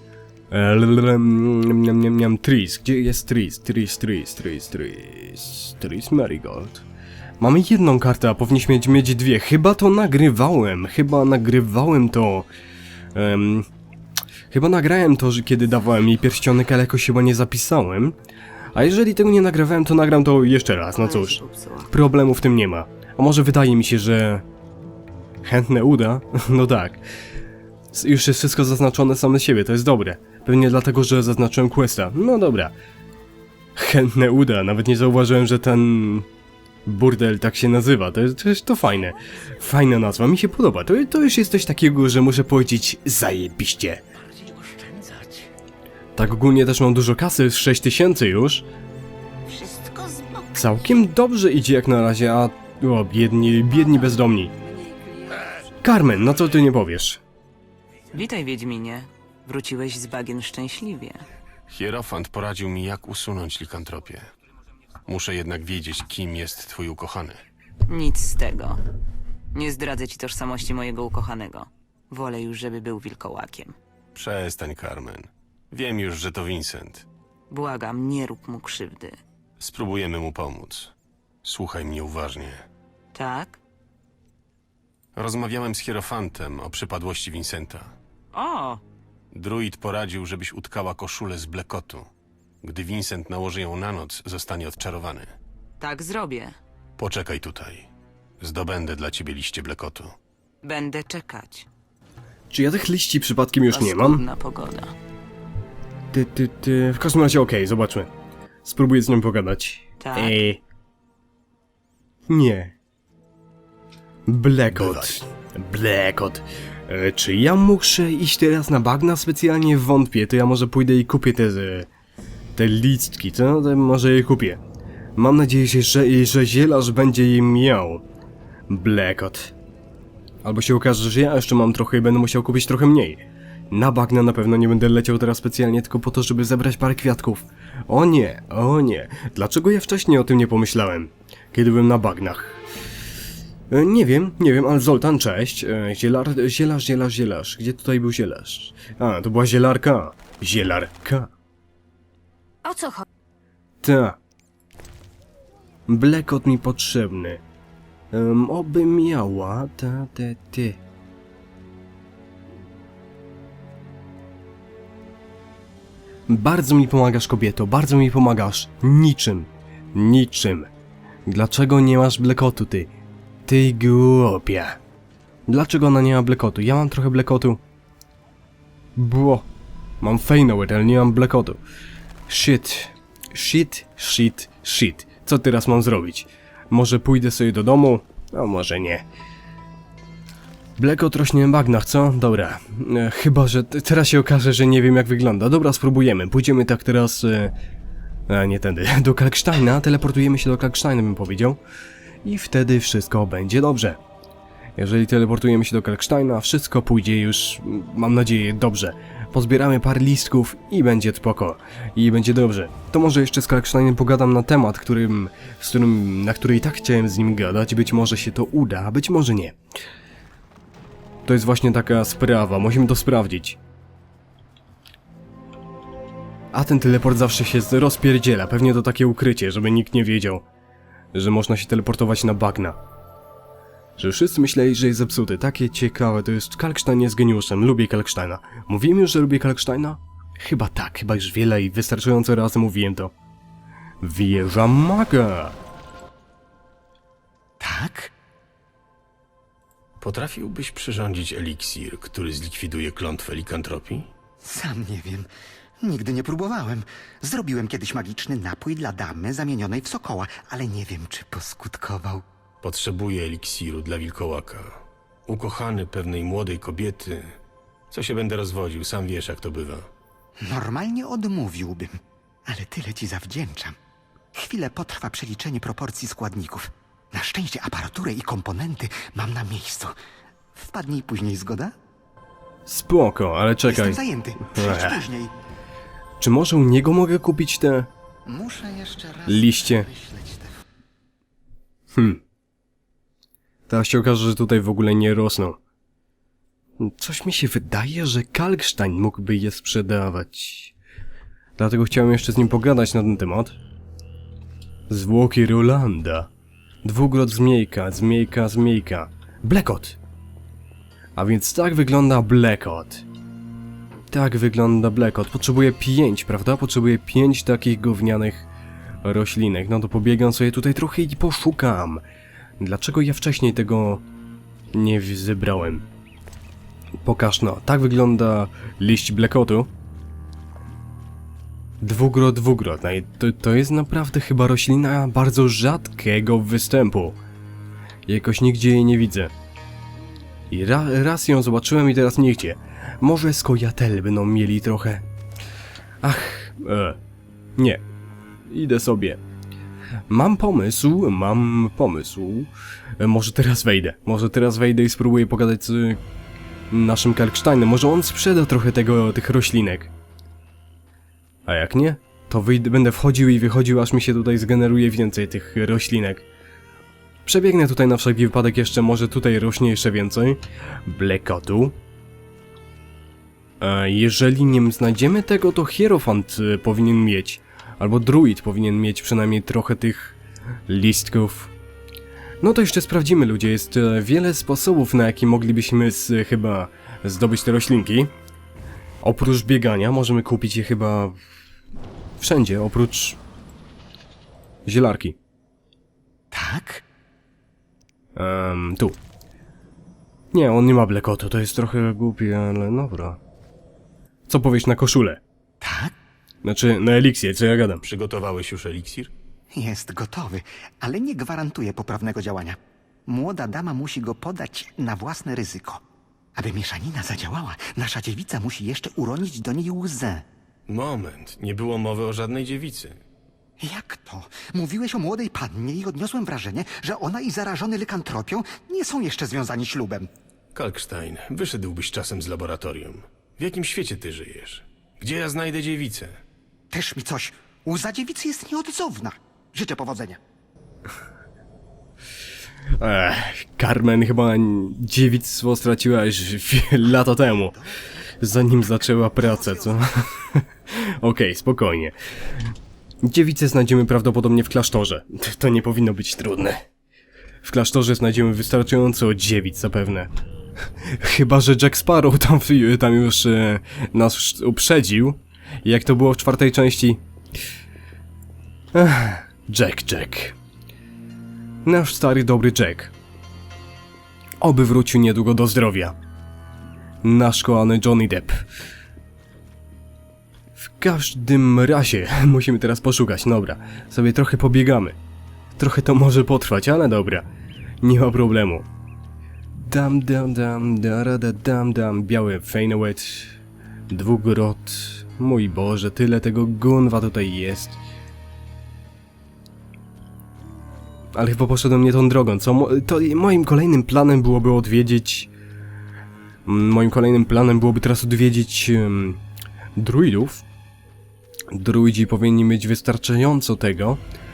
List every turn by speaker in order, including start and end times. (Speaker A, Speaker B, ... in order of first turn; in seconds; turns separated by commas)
Speaker A: 0.5-6.8, Speaker A: 7.4-12.5, Speaker A: 13.1-13.7, Speaker A: 14.5-18.2, Speaker A: 18.7-24.4, Speaker B: 21.0-21.9, Speaker A: 25.4-27.0, Speaker A: 27.9-32.7, Speaker A: 33.8-36.3, Speaker A: 36.8-44.0, Speaker C: 44.4-45.4, Speaker A: 46.1-48.6, Speaker C: 49.5-50.9, Speaker A: 50.5-54.5, Speaker C: 53.8-55.6, Speaker A: 55.8-57.2, Speaker B: 58.1-61.2, Speaker D: 61.7-64.3, Speaker D: 65.1-67.4, Speaker B: 67.9-68.8, Speaker B: 69.5-73.7, Speaker D: 74.1-77.1, Speaker B: 77.5-79.2, Speaker D: 79.6-80.9, Speaker D: 81.4-82.6, Speaker B: 83.1-83.6, Speaker D: 85.2-87.9, Speaker B: 88.3-88.8, Speaker D: 89.3-92.1, Speaker D: 92.6-95.3, Speaker B: 95.8-96.5, Speaker D: 97.0-97.9, Speaker D: 98.4-100.1, Speaker B: 100.6-101.7, Speaker A: 102.5-104.2, Speaker B: 103.7-104.9, Speaker A: 106.1-108.1, Speaker A: 108.6-110.6, Speaker B: 110.0-110.4, Speaker A: 112.3-112.7, Speaker A: 114.2-121.9, Speaker D: 114.7-115.2, Speaker A: 122.5-124.6, Speaker A: 125.2-128.0, Speaker A: 128.7-129.5, Speaker A: 130.4-142.6, Speaker A: 143.7-151.3, Speaker C: 152.6-153.0, Speaker A: 153.8-154.2, Speaker A: 155.9-157.4, Speaker A: 158.1-160.8, Speaker A: 166.3-170.7, Speaker A: 171.3-172.9, Speaker A: 173.4-174.8, Speaker A: 175.5-177.6, Speaker A: 178.9-179.5, Speaker A: 180.0-181.6, Speaker A: 182.3-189.0, Speaker A: 190.8-197.5, Speaker A: 198.3-201.6, Speaker A: 202.2-204.0, Speaker A: 204.8-219.6, Speaker A: 221.2-223.6, Speaker A: 226.5-230.4, Speaker A: 231.1-232.8, Speaker A: 234.0-243.1, Speaker A: 244.0-245.6, Speaker E: 247.6-248.1, Speaker D: 250.0-254.1, Speaker E: 254.4-255.3, Speaker E: 255.8-262.2, Speaker D: 262.6-267.4, Speaker D: 267.9-269.9, Speaker E: 270.4-273.8, Speaker E: 274.3-279.9, Speaker E: 280.5-281.7, Speaker A: 282.6-285.0, Speaker E: 283.6-285.3, Speaker A: 286.2-287.9, Speaker E: 288.3-290.6, Speaker A: 289.3-289.9, Speaker A: 291.9-292.2, Speaker A: 293.7-295.6, Speaker A: 296.8-300.7, Speaker A: 301.6-303.5, Speaker A: 304.9-306.3, Speaker A: 306.8-310.0, Speaker A: 311.1-313.0, Speaker A: 314.1-318.5, Speaker A: 319.0-322.0, Speaker A: 322.6-324.0, Speaker A: 324.7-325.8, Speaker A: 327.0-329.7, Speaker A: 331.8-337.2, Speaker A: 338.1-339.3, Speaker A: 340.5-345.0, Speaker A: 346.0-347.0, Speaker A: 347.6-347.8, Speaker A: 348.5-349.2, Speaker A: 350.1-356.0, Speaker A: 356.7-359.9, Speaker A: 361.4-366.2, Speaker A: 367.2-371.8, Speaker A: 373.6-381.5, Speaker A: 382.4-388.1, Speaker A: 389.0-391.2, Speaker A: 392.2-393.2, Speaker A: 394.6-395.2, Speaker E: 396.3-396.8, Speaker A: 398.1-399.0, Speaker A: 400.3-403.2, Speaker A: 404.3-405.2, Speaker E: 405.6-405.9, Speaker A: 406.4-407.8, Speaker D: 407.8-409.1, Speaker E: 409.5-415.8, Speaker E: 416.3-420.2, Speaker D: 420.7-423.0, Speaker E: 423.6-430.1, Speaker D: 430.5-436.2, Speaker E: 436.7-440.2, Speaker A: 442.8-447.5, Speaker A: 448.2-451.9, Speaker A: 453.0-456.6, Speaker A: 457.4-460.1, Speaker A: 460.8-467.0, Speaker A: 468.7-470.4, Speaker A: 471.6-472.9, Speaker A: 474.4-475.9, Speaker A: 477.0-478.4, Speaker A: 480.6-484.9, Speaker A: 485.6-487.3, Speaker A: 487.8-488.6, Speaker A: 489.5-493.4, Speaker A: 493.9-497.8, Speaker A: 501.1-505.3, Speaker A: 506.4-509.2, Speaker A: 509.8-510.4, Speaker A: 511.5-514.0